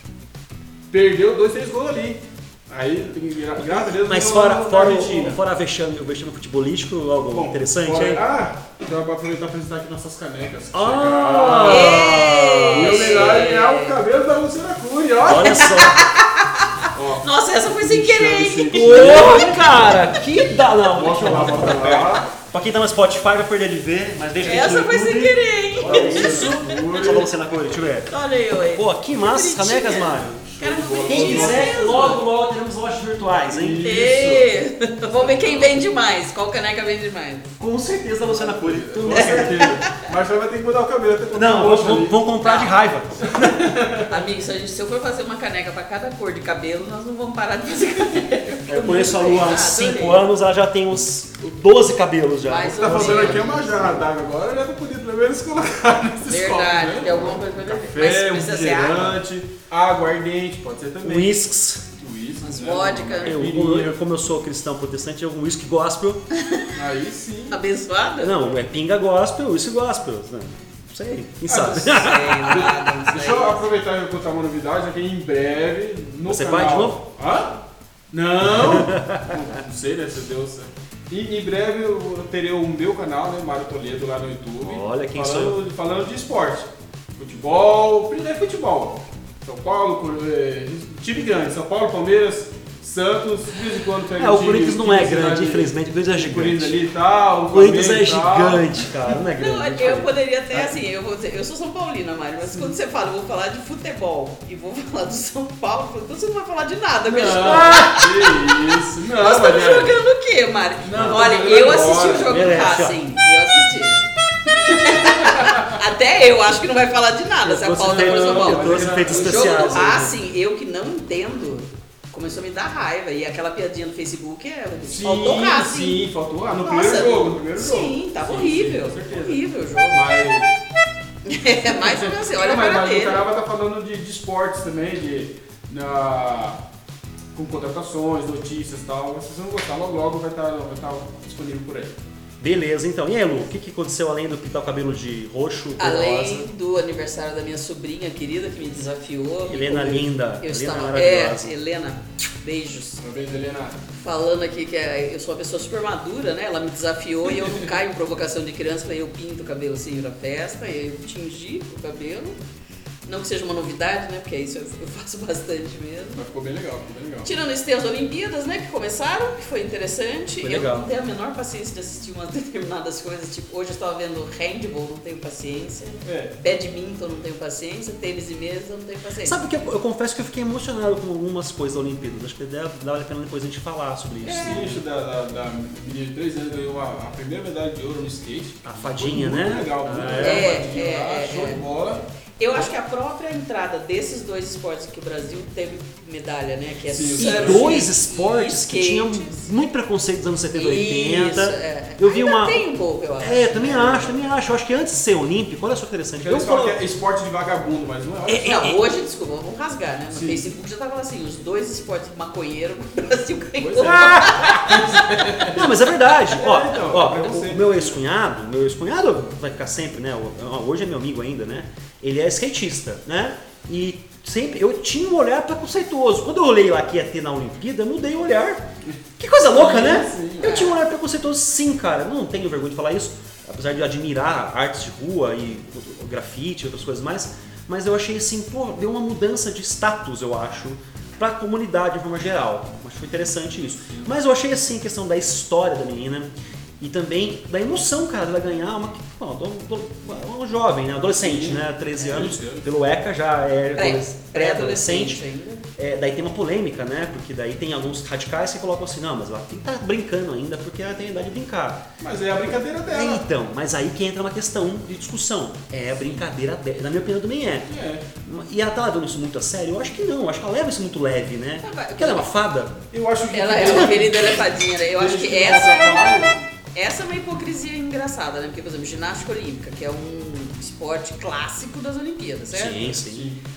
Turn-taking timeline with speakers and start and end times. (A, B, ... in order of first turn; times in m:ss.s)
0:00.9-0:05.4 A
0:03.6-0:08.2 B
0:07.3-0:15.8 A
0:10.7-0:13.3 B
0:11.6-0:14.0 C
0:15.2-0:16.0 B
0:15.4-0:20.1 C
0:16.9-0:20.0 A
0:18.7-0:33.8 B
0:20.9-0:22.3 A
0:24.4-0:27.2 C
0:25.8-0:27.3 A
0:28.1-0:32.2 C
0:30.6-0:31.9 A
0:33.5-0:34.5 A
0:33.8-0:37.5 C
0:35.2-0:35.7 B
0:37.6-0:39.8 B
0:38.2-0:42.2 A
0:39.1-0:40.0 C
0:41.3-0:43.7 B
0:42.4-0:42.8 C
0:43.3-0:44.2 A
0:44.1-0:50.2 C
0:48.7-0:53.6 B
0:52.4-0:53.7 C
0:52.7-1:01.3 A
0:56.3-0:59.2 C
1:01.0-1:01.8 B
1:02.0-1:04.0 A
1:02.4-1:03.4 C
1:03.2-1:06.2 B
1:06.4-1:06.7 C
1:06.7-1:07.6 A
1:07.5-1:08.5 C
1:08.2-1:12.6 B
1:11.5-1:13.6 C
1:11.5-1:17.6 A
1:16.3-1:17.0 B
1:18.1-1:38.9 A
1:18.4-1:19.4 B
1:24.6-1:25.6 B
1:34.2-1:36.8 B
1:37.5-1:40.7 B
1:39.4-1:48.3 C
1:47.1-1:50.0 A
1:47.3-1:48.1 B
1:49.2-1:54.0 C
1:50.8-1:52.5 A
1:50.9-1:51.3 B
1:52.1-1:53.0 B
1:54.6-2:06.0 C
1:54.7-1:55.7 A
1:57.4-2:00.2 B
1:57.8-2:00.0 A
2:04.9-2:10.5 A
2:06.6-2:10.1 C
2:11.2-2:13.2 C
2:11.8-2:16.6 A
2:17.3-2:22.0 A
2:22.4-2:26.5 B
2:25.8-2:33.0 C
2:29.5-2:31.6 B
2:33.0-2:33.8 A
2:34.0-2:42.4 C
2:43.0-2:46.2 C
2:46.2-2:47.3 A
2:47.2-2:59.4 C
2:50.4-2:50.9 B
2:56.0-2:56.3 A
2:59.2-3:04.8 B
3:04.2-3:04.7 C
3:04.4-3:12.0 A
3:08.6-3:10.6 B
3:10.2-3:11.6 C
3:12.4-3:19.5 C
3:16.9-3:17.9 A
3:17.2-3:22.7 B
3:20.5-3:24.2 C
3:23.2-3:26.8 B
3:26.2-3:28.6 A
3:28.3-3:28.8 B
3:28.4-3:35.3 C
3:30.1-3:30.4 A
3:33.6-3:35.7 A
3:33.8-3:34.8 B
3:35.5-3:48.6 B
3:36.3-3:38.0 A
3:48.9-3:50.7 A
3:49.2-4:15.2 B
3:50.4-3:50.8 C
4:11.2-4:12.7 A
4:12.0-4:12.3 C
4:13.8-4:15.6 C
4:15.8-4:21.8 B
4:22.0-4:23.2 A
4:22.9-4:27.7 B
4:27.7-4:28.0 A
4:28.2-4:32.8 B
4:31.6-4:32.4 C
4:32.9-4:36.4 A
4:33.3-4:42.9 C
4:42.5-4:43.3 B
4:43.0-4:43.4 A